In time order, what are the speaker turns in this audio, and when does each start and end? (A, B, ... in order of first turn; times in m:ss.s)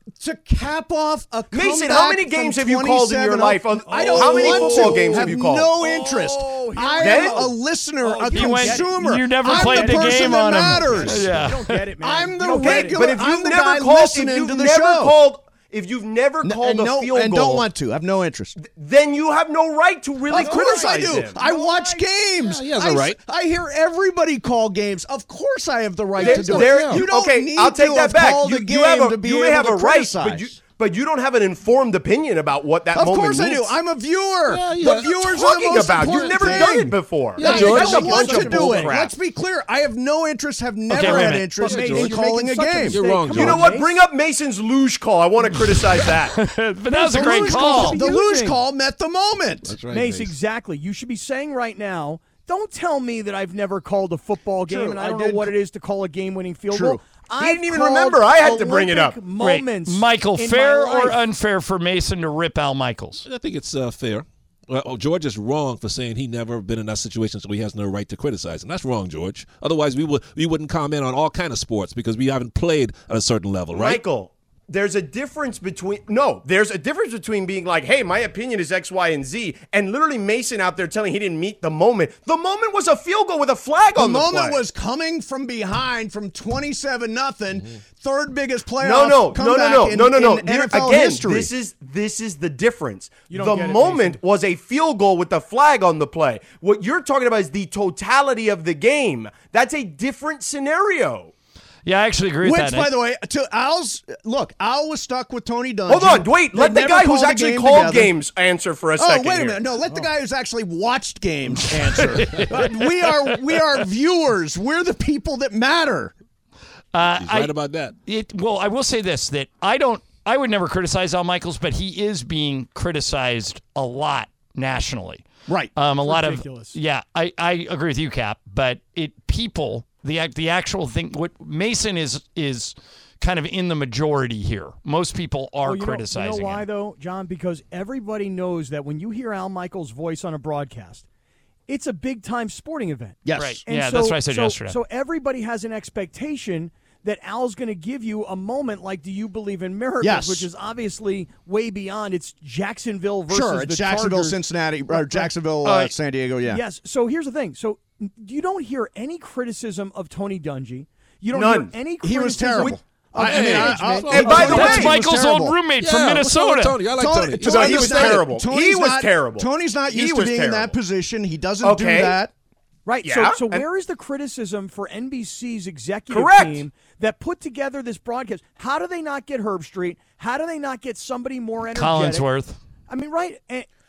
0:00.2-0:11.4 A
0:01.5-0:06.4 B
0:03.9-0:05.3 C
0:06.0-0:13.1 C
0:06.9-0:07.5 B
0:08.3-0:11.8 D
0:12.0-0:15.1 A
0:12.9-0:17.6 B
0:16.4-0:18.6 A
0:18.6-0:21.4 B
0:20.3-0:22.1 C
0:20.3-0:30.5 A
0:22.4-0:23.2 E
0:26.2-0:27.0 E
0:26.2-0:33.7 B
0:32.9-0:43.0 A
0:34.5-0:36.7 E
0:34.9-0:39.1 B
0:37.3-0:38.4 E
0:37.5-0:39.0 C
0:40.9-0:41.5 D
0:41.0-0:44.0 C
0:41.6-0:42.2 E
0:42.8-0:43.7 E
0:43.3-0:46.3 B
0:46.3-0:48.0 D
0:46.9-0:48.6 C
0:47.0-0:49.8 A
0:49.7-0:50.3 E
0:49.9-1:01.2 C
0:54.7-0:55.5 A
0:56.7-0:57.0 A
0:57.4-0:59.2 B
0:59.4-1:03.2 D
1:03.2-1:14.0 E
1:13.7-1:24.6 B
1:23.9-1:31.5 A
1:28.8-1:41.3 B
1:33.3-1:34.2 C
1:41.8-1:42.9 D
1:42.4-1:48.2 A
1:45.9-1:49.6 B
1:49.0-1:56.1 A
1:52.0-1:53.6 D
1:56.9-1:57.5 D
1:57.2-1:57.9 E
1:58.0-2:16.6 D
2:05.5-2:05.7 A
2:06.0-2:06.8 C
2:15.6-2:21.0 C
2:21.7-2:35.3 C
2:23.2-2:23.6 A
2:23.4-2:24.8 D
2:30.0-2:30.4 A
2:33.3-2:36.6 A
2:35.6-2:35.9 D
2:36.4-2:44.8 C
2:41.3-2:41.8 B
2:42.0-2:45.6 A
2:43.2-2:44.7 E
2:44.1-2:44.9 B
2:44.4-2:46.8 D
2:45.8-2:48.2 E
2:47.0-2:52.3 A
2:47.4-2:50.8 B
2:51.6-2:52.2 B
2:52.8-3:02.2 C
2:53.0-2:53.6 B
2:56.1-2:56.6 B
3:01.7-3:02.6 D
3:02.9-3:03.7 C